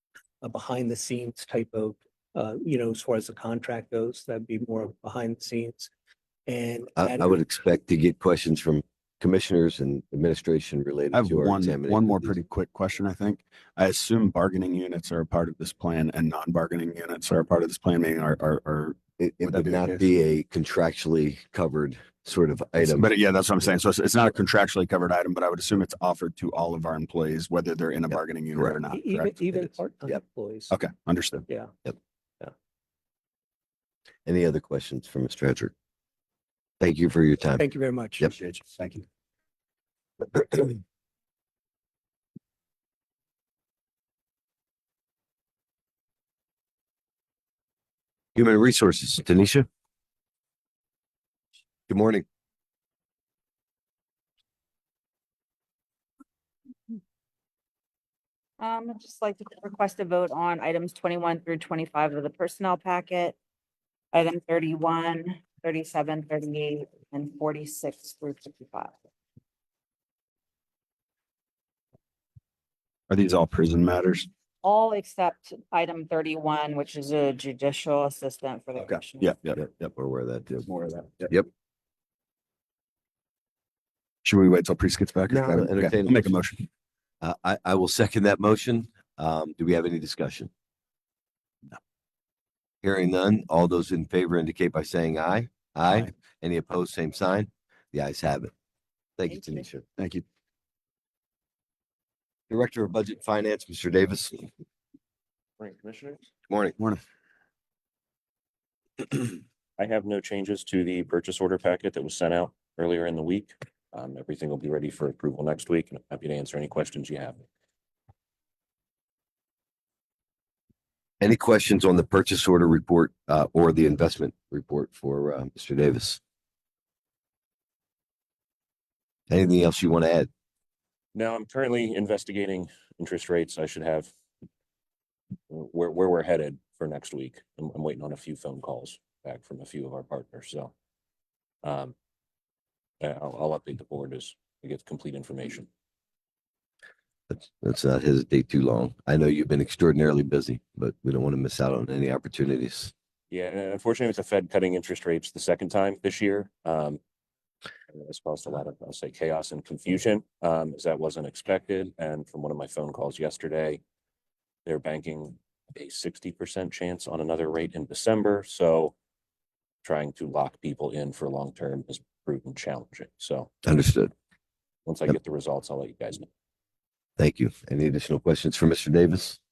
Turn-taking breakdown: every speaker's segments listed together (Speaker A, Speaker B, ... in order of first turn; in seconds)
Speaker A: 0.4-5.9, 6.5-7.4, 28.9-30.7, 37.6-38.3
Speaker B: 7.0-12.4, 19.2-23.1, 34.2-35.7, 36.8-37.6, 48.3-49.7, 51.9-52.2, 79.4-80.7, 85.3-86.3, 87.2-90.5, 92.8-98.5, 99.2-99.8, 102.5-104.5, 106.5-106.8, 121.2-126.2, 129.3-130.3, 147.3-152.9, 173.6-174.1, 177.2-179.4
Speaker C: 11.1-20.1, 22.8-29.7, 30.7-31.4, 38.3-39.0, 73.1-74.3, 78.8-79.3, 80.7-81.3, 84.2-86.7, 100.0-100.2
Speaker D: 58.6-63.4, 64.1-68.9, 74.6-79.3
Speaker E: 105.6-106.2, 109.1-117.4, 131.1-134.1, 135.5-140.7, 141.6-141.9, 143.0-145.7, 153.3-157.0, 157.9-163.8, 164.6-168.9, 169.8-173.5, 174.8-176.3